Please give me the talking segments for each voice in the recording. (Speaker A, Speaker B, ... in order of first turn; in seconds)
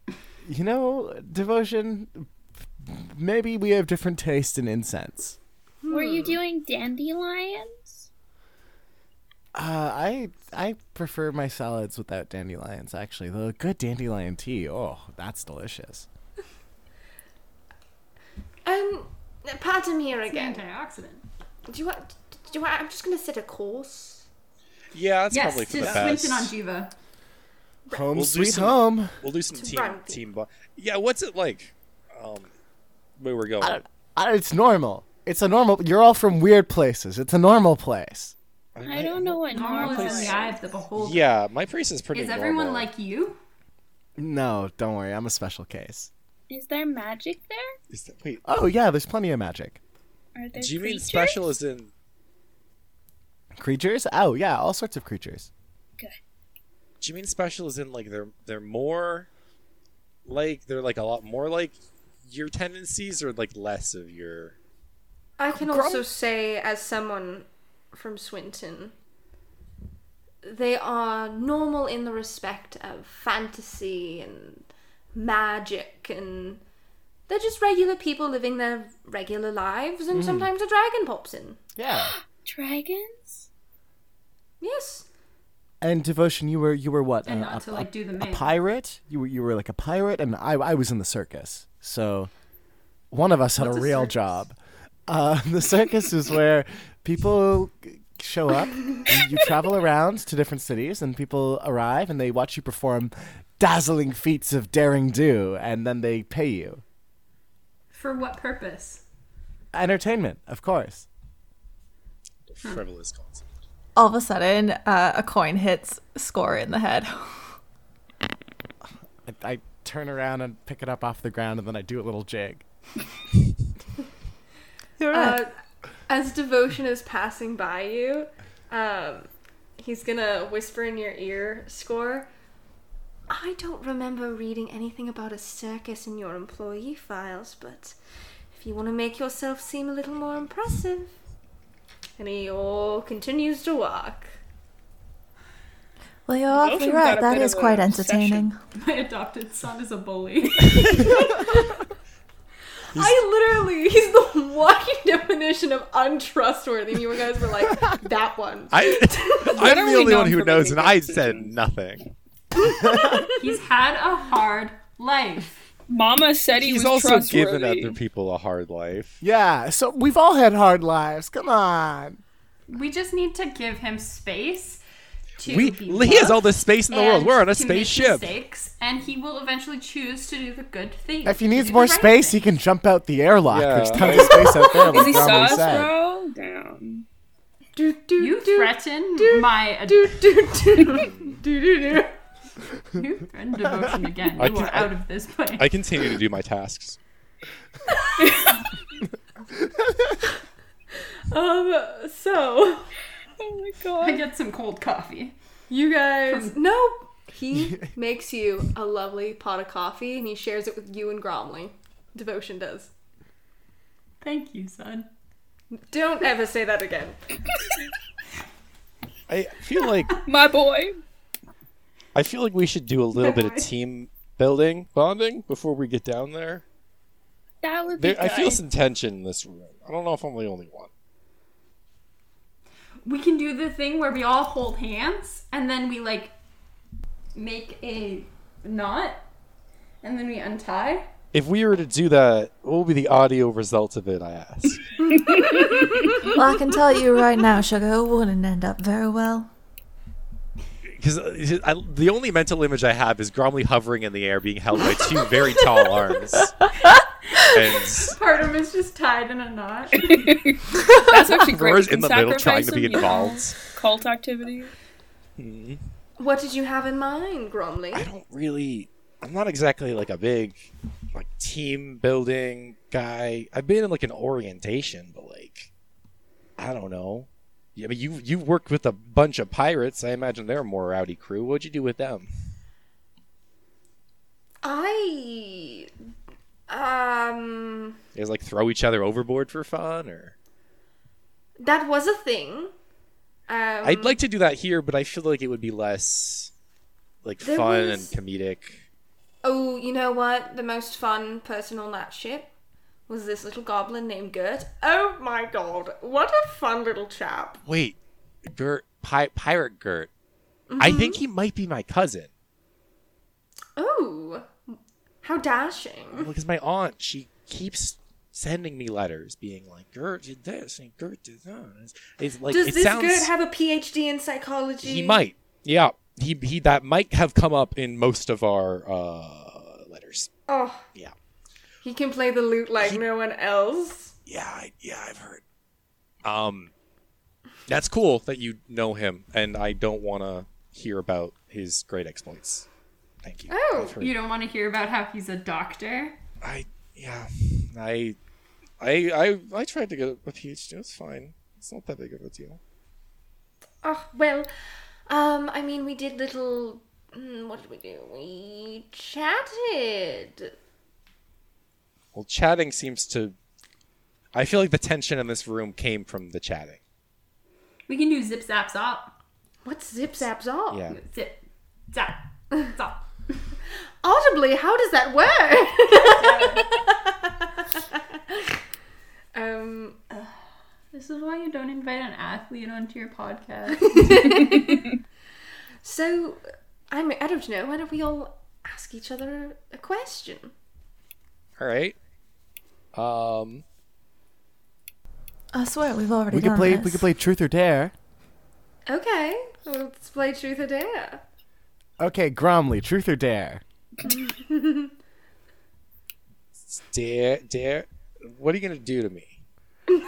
Speaker A: 0.4-2.3, 2.8-5.4, 9.5-16.1, 25.8-26.1, 27.9-29.2, 33.6-38.3, 44.2-46.1, 48.4-49.8, 53.5-55.5, 80.1-80.5, 81.8-82.1, 85.8-92.3, 93.1-94.5, 95.1-106.8, 109.7-111.0, 119.2-122.6, 162.7-163.3, 169.2-172.2, 181.2-185.9, 193.7-194.0, 199.6-200.1, 396.3-397.9, 402.0-403.6
Speaker B: 5.8-6.4, 18.6-20.6, 21.7-24.2, 29.5-30.2, 65.4-68.9, 70.4-76.6, 77.3-81.6, 84.6-85.0, 93.6-94.3, 125.1-125.5, 126.1-132.3, 133.3-137.9, 138.5-141.1, 142.2-144.3, 151.0-151.8, 152.9-159.5, 162.7-163.2, 187.8-192.2, 201.3-202.9, 205.7-212.9, 215.8-217.2, 245.0-246.3, 266.2-268.1, 284.6-285.9, 286.7-288.0, 291.6-292.7, 293.5-294.2, 297.4-298.1, 299.4-302.5, 303.1-307.6, 310.7-311.2, 313.8-316.3, 322.5-325.2, 330.5-330.8, 331.8-334.1, 343.5-343.9, 353.8-354.5, 355.1-360.5, 369.6-370.8, 374.0-377.6, 378.3-378.5, 379.3-380.0, 383.9-384.8, 385.8-390.5, 398.9-401.2, 404.0-404.9
Speaker C: 5.9-8.1, 38.9-40.5, 46.5-47.8, 50.3-51.5, 81.9-83.5, 146.5-148.5, 159.4-161.5, 165.9-168.0, 184.0-187.0, 203.4-204.2, 220.2-221.0, 227.6-228.6, 245.2-245.9, 259.9-264.7
Speaker D: 20.3-21.2, 25.3-26.9, 39.5-41.3, 42.1-43.4, 87.2-88.5, 107.9-109.0, 148.7-151.4, 163.3-165.6, 172.7-174.8, 175.4-182.4, 188.2-190.2, 192.9-195.8, 204.0-205.3, 214.2-215.1, 223.2-223.6, 233.0-236.3, 237.3-239.2, 240.0-241.1, 257.9-260.2, 344.0-346.2, 367.9-369.1, 370.9-373.1, 376.0-376.7, 380.9-384.6
Speaker E: 24.9-26.5, 28.1-32.5, 33.2-33.8, 38.7-42.9, 47.9-48.5, 50.5-51.9, 57.0-59.3, 60.2-64.5, 112.5-113.4, 152.9-153.2, 158.7-162.1, 166.6-169.2, 175.4-178.4, 183.5-184.8, 190.8-191.4, 194.4-195.0, 195.5-197.0, 219.3-220.2, 222.1-226.6, 228.0-230.9, 241.3-244.8, 251.0-256.6, 257.4-258.2, 261.3-263.6, 265.4-265.8, 267.9-275.7, 276.6-282.3, 288.1-290.3, 293.8-296.5, 297.2-298.8, 307.6-310.1, 310.8-312.3, 316.1-323.3, 324.8-330.3, 334.2-335.4, 336.2-336.7, 337.7-342.6, 343.2-344.2, 346.4-348.2, 348.8-352.6, 362.1-363.4, 364.3-366.8, 370.7-371.0, 391.6-391.9, 392.9-393.6, 406.6-409.4
Speaker F: 114.0-117.5, 125.0-125.4, 146.3-148.6, 246.3-249.5, 395.5-397.1